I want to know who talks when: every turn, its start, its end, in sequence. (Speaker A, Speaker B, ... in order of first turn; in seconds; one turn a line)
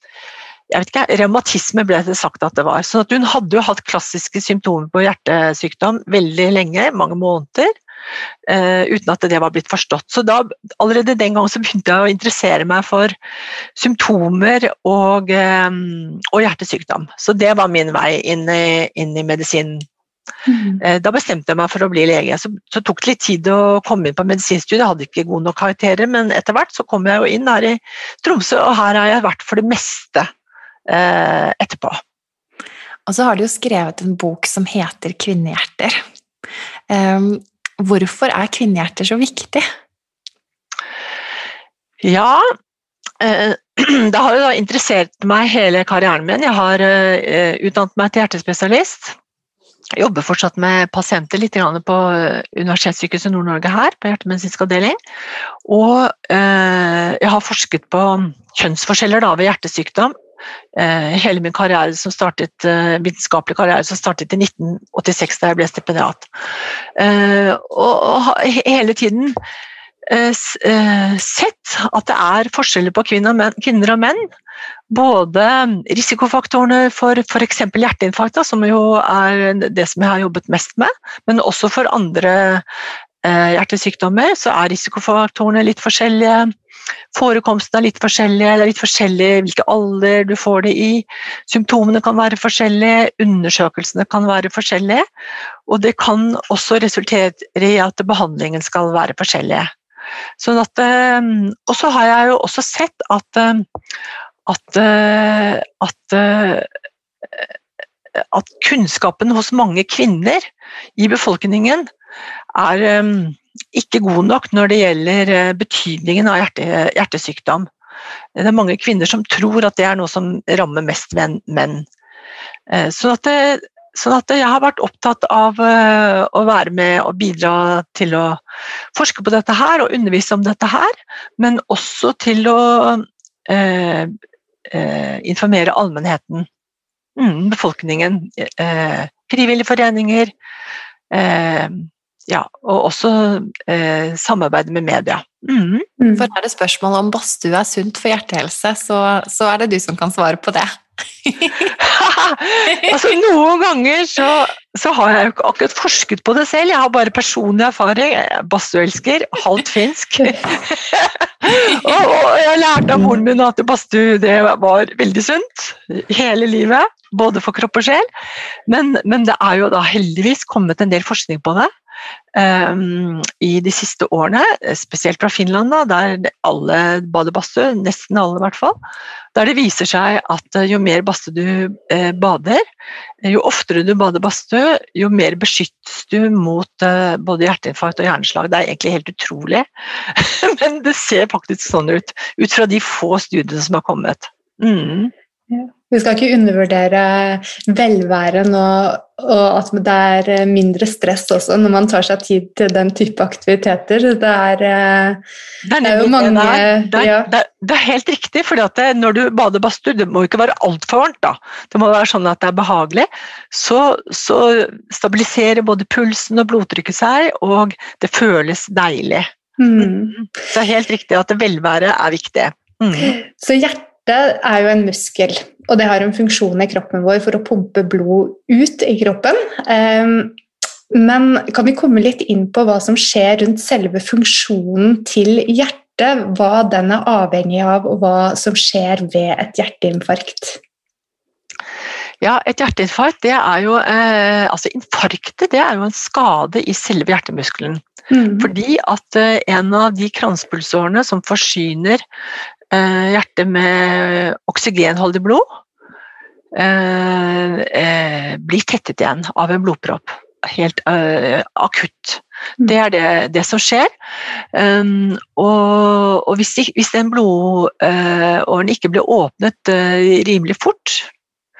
Speaker A: 0.7-7.7
Speaker A: 8.5-13.1
Speaker A: 13.8-19.9
Speaker B: 20.5-20.8
Speaker A: 20.8-30.3
Speaker A: 30.9-32.0
Speaker C: 33.1-36.0
Speaker C: 36.9-39.6
Speaker A: 42.0-42.4
Speaker A: 43.2-49.2
Speaker A: 49.9-55.0
Speaker A: 55.6-60.1
Speaker A: 60.8-66.3
Speaker A: 67.0-69.4
Speaker A: 70.1-74.3
Speaker A: 74.9-82.6
Speaker A: 83.2-86.5
Speaker A: 87.1-95.0
Speaker A: 95.7-99.7
Speaker A: 100.4-103.7
Speaker A: 104.5-106.7
Speaker A: 108.2-111.9
Speaker A: 112.5-117.7
Speaker A: 118.4-121.9
Speaker A: 122.7-128.4
Speaker A: 128.9-134.1
Speaker A: 134.7-136.5
Speaker A: 137.2-140.3
Speaker A: 141.1-145.9
Speaker B: 146.0-146.3
Speaker C: 146.2-151.7
Speaker A: 151.8-168.1
Speaker A: 168.7-171.7
Speaker A: 172.3-178.8
Speaker A: 179.3-182.6
Speaker A: 183.2-195.1
Speaker B: 195.5-205.2
Speaker A: 205.6-223.2
Speaker B: 205.8-207.3
Speaker B: 219.6-220.2
Speaker B: 223.0-230.4
Speaker B: 230.9-240.6
Speaker A: 242.2-247.8
Speaker B: 248.1-248.5
Speaker A: 248.4-252.0
Speaker A: 252.7-255.4
Speaker A: 256.5-263.9
Speaker A: 264.5-271.1